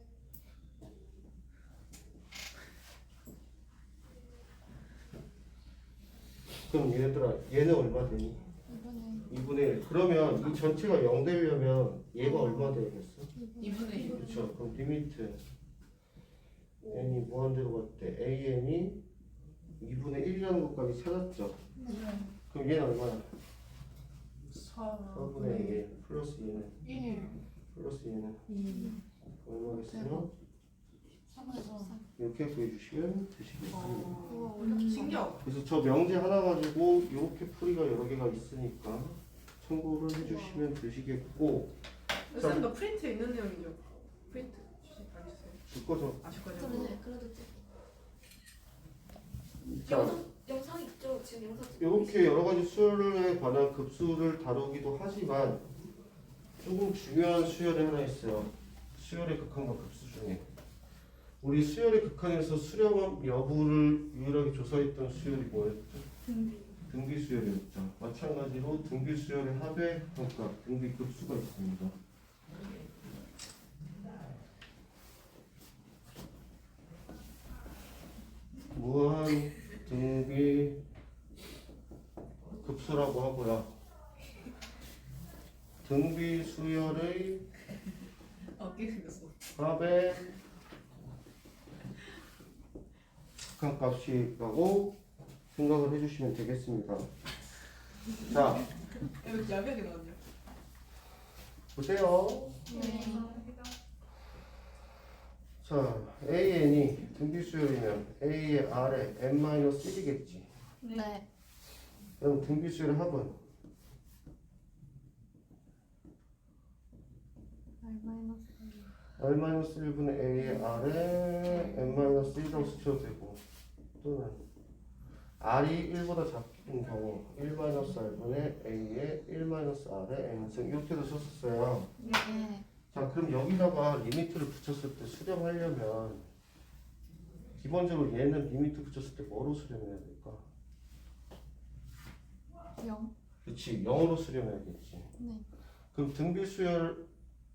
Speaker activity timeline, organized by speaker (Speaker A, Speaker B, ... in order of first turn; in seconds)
Speaker A: 6.7-8.4, 9.3-13.3, 14.1-15.4, 16.9-19.0, 19.8-21.6, 22.5-23.3, 25.1-26.9, 27.7-28.5, 29.4-30.3, 32.1-34.2, 35.4-41.7, 42.3-42.7, 45.7-46.2, 49.7-50.2, 51.8-55.6, 56.6-60.4, 61.4-66.0, 66.9-71.9, 78.7-80.8, 82.6-83.7, 85.8-87.5, 89.5-90.3, 93.5-95.0, 95.5-97.1, 98.2-98.7, 101.7-102.6, 105.6-110.5, 112.2-113.4, 119.2-123.4, 124.0-124.4, 125.4-131.9, 132.9-136.2, 137.6-140.4, 143.4-145.1, 145.9-147.1
Speaker B: 8.7-9.5, 12.2-12.7, 13.3-14.1, 21.8-22.0, 25.4-25.8, 26.8-27.3, 28.6-29.0, 29.7-30.3, 31.3-32.0, 34.2-35.3, 46.6-47.1, 102.7-103.3, 110.9-111.2, 117.8-118.9, 120.4-120.8, 121.5-122.3, 132.1-132.7, 142.8-143.1, 145.2-145.4
Speaker C: 13.6-14.3, 21.9-22.3, 24.5-25.8, 26.9-27.2, 28.5-29.0, 31.4-32.0, 33.7-35.5, 42.3-45.6, 46.2-47.0, 88.5-89.3, 99.1-100.2
Speaker D: 13.7-14.5, 34.6-35.2, 40.2-40.7, 46.5-47.5, 49.8-52.4, 66.2-66.7, 102.7-103.7, 110.8-111.1, 132.0-132.4